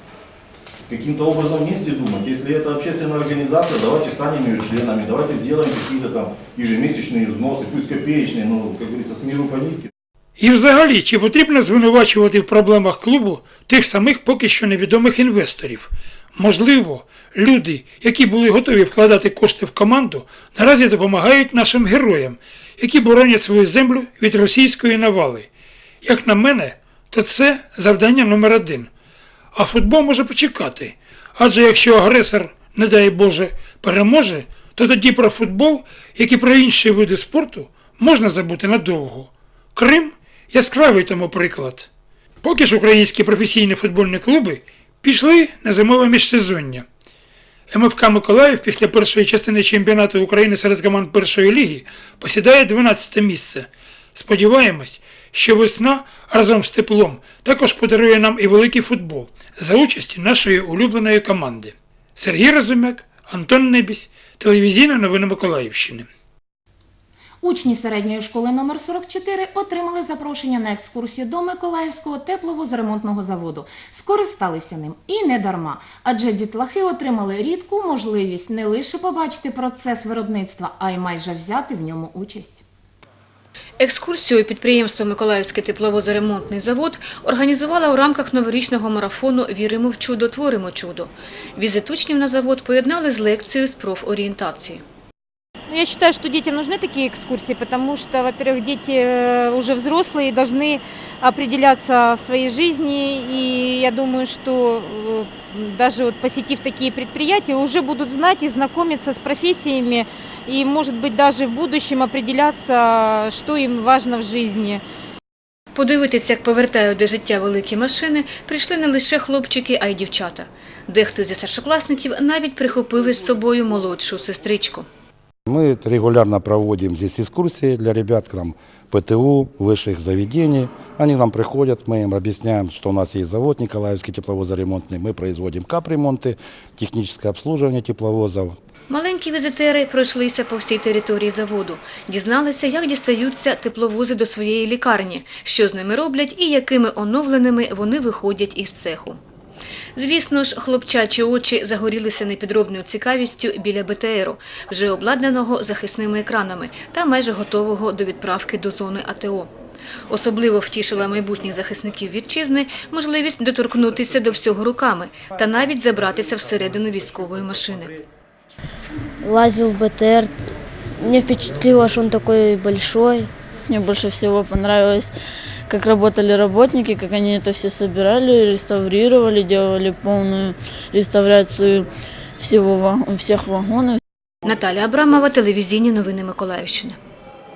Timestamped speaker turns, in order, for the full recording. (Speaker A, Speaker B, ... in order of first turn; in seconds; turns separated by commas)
Speaker A: 0.9-9.9, Speaker B: 10.4-25.5, Speaker B: 26.0-28.9, Speaker B: 29.5-41.9, Speaker B: 42.4-46.9, Speaker B: 47.7-66.1, Speaker C: 67.4-82.6, Speaker D: 83.8-94.8, Speaker E: 95.7-114.8, Speaker D: 115.7-124.9, Speaker F: 126.4-128.3, Speaker F: 128.9-131.0, Speaker F: 131.7-134.2, Speaker F: 135.0-135.7, Speaker F: 136.8-137.1, Speaker D: 138.9-149.2, Speaker D: 149.9-159.5, Speaker D: 160.1-168.0, Speaker G: 169.2-170.4, Speaker G: 171.0-173.3, Speaker H: 173.7-175.1, Speaker H: 175.7-184.0, Speaker D: 184.4-187.0